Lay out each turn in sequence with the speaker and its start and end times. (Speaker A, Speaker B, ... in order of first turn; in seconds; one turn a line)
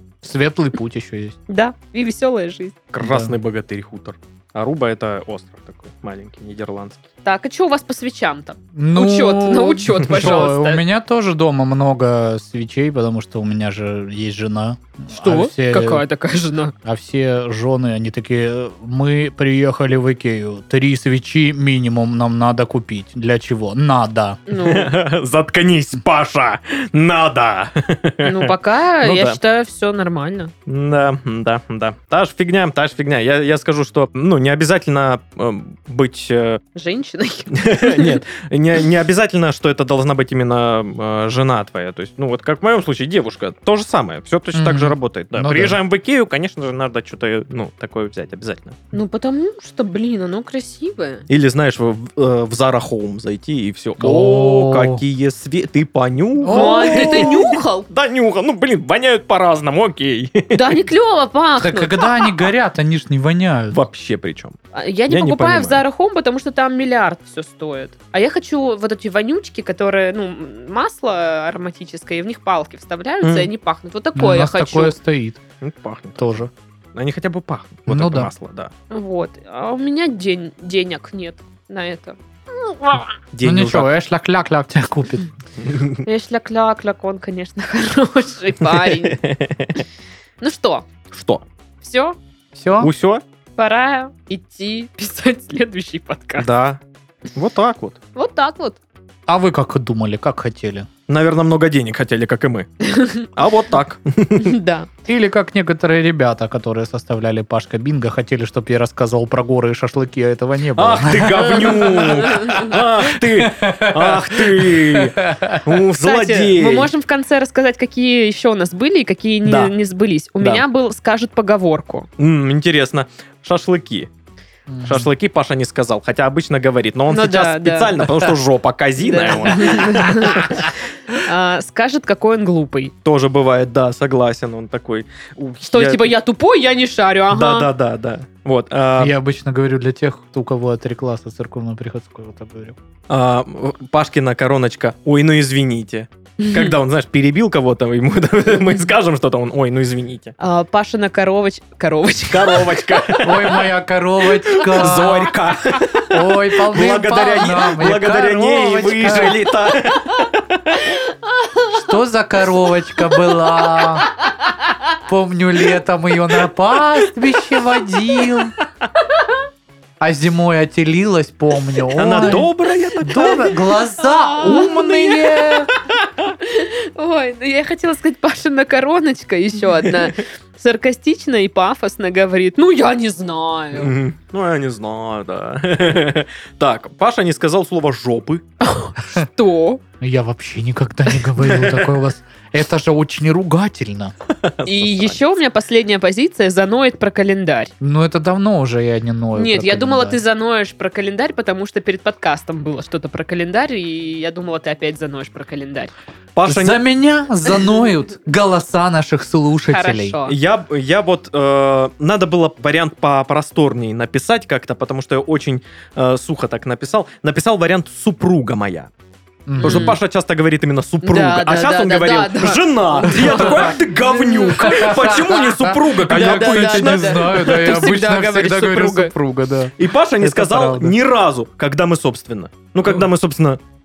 Speaker A: 0.2-1.4
Speaker B: 1.5-2.8
Speaker C: 2.9-7.0
Speaker A: 3.0-3.3
Speaker B: 7.2-10.8
Speaker A: 8.7-16.0
Speaker B: 15.1-16.7
Speaker A: 16.8-24.4
Speaker B: 24.5-24.9
Speaker C: 24.5-29.4
Speaker B: 28.2-30.5
Speaker C: 30.7-36.6
Speaker B: 36.7-38.2
Speaker C: 37.5-48.8
Speaker A: 44.5-45.8
Speaker B: 48.9-51.3
Speaker C: 51.3-60.8
Speaker A: 54.0-55.0
Speaker A: 56.4-57.5
Speaker B: 56.5-57.9
Speaker B: 60.5-62.3
Speaker A: 61.6-63.8
Speaker C: 63.7-64.6
Speaker B: 64.7-74.9
Speaker C: 65.1-65.8
Speaker C: 73.2-73.5
Speaker A: 74.2-75.4
Speaker C: 75.6-76.3
Speaker A: 76.2-76.5
Speaker C: 76.9-78.7
Speaker A: 77.9-78.3
Speaker B: 78.9-83.1
Speaker C: 83.3-83.9
Speaker A: 83.4-85.3
Speaker C: 85.6-86.0
Speaker B: 86.0-89.2
Speaker C: 88.8-89.8
Speaker B: 90.4-90.9
Speaker C: 91.1-91.4
Speaker B: 91.8-92.2
Speaker A: 92.5-92.9
Speaker C: 92.8-93.2
Speaker B: 93.6-96.5
Speaker C: 96.4-96.8
Speaker C: 97.3-98.0
Speaker B: 98.1-98.8
Speaker A: 99.3-100.9
Speaker C: 101.1-104.6
Speaker B: 102.8-103.3
Speaker B: 104.4-104.9
Speaker A: 105.1-115.6
Speaker C: 110.8-116.9
Speaker B: 111.4-112.8
Speaker B: 116.0-122.1
Speaker C: 119.4-119.7
Speaker C: 122.2-124.1
Speaker A: 124.7-125.1
Speaker C: 124.8-130.5
Speaker B: 127.1-128.0
Speaker B: 129.0-132.9
Speaker C: 133.0-136.1
Speaker B: 135.6-137.7
Speaker C: 137.3-139.1
Speaker A: 139.0-142.8
Speaker C: 143.1-150.3
Speaker B: 146.4-146.8
Speaker B: 150.4-153.2
Speaker C: 152.3-153.6
Speaker A: 153.2-155.3
Speaker C: 154.3-160.8
Speaker A: 156.0-159.4
Speaker B: 159.9-160.2
Speaker B: 160.8-161.9
Speaker A: 161.7-164.1
Speaker B: 163.6-164.9
Speaker A: 165.1-168.5
Speaker B: 169.1-169.4
Speaker A: 170.0-175.7
Speaker C: 171.9-173.6
Speaker B: 174.0-175.3
Speaker C: 174.4-175.8
Speaker B: 176.4-183.9
Speaker C: 183.8-188.4
Speaker B: 188.6-189.8
Speaker A: 190.0-194.1
Speaker C: 194.3-195.2
Speaker B: 194.6-197.7
Speaker A: 197.8-200.2
Speaker B: 199.3-205.9
Speaker C: 206.3-206.8
Speaker A: 206.4-210.2
Speaker B: 209.7-210.3
Speaker C: 210.2-218.9
Speaker A: 219.5-220.0
Speaker C: 219.6-227.3
Speaker B: 219.6-220.0
Speaker B: 221.0-225.2
Speaker A: 223.2-223.8
Speaker A: 224.5-230.9
Speaker B: 226.1-229.1
Speaker C: 229.8-233.6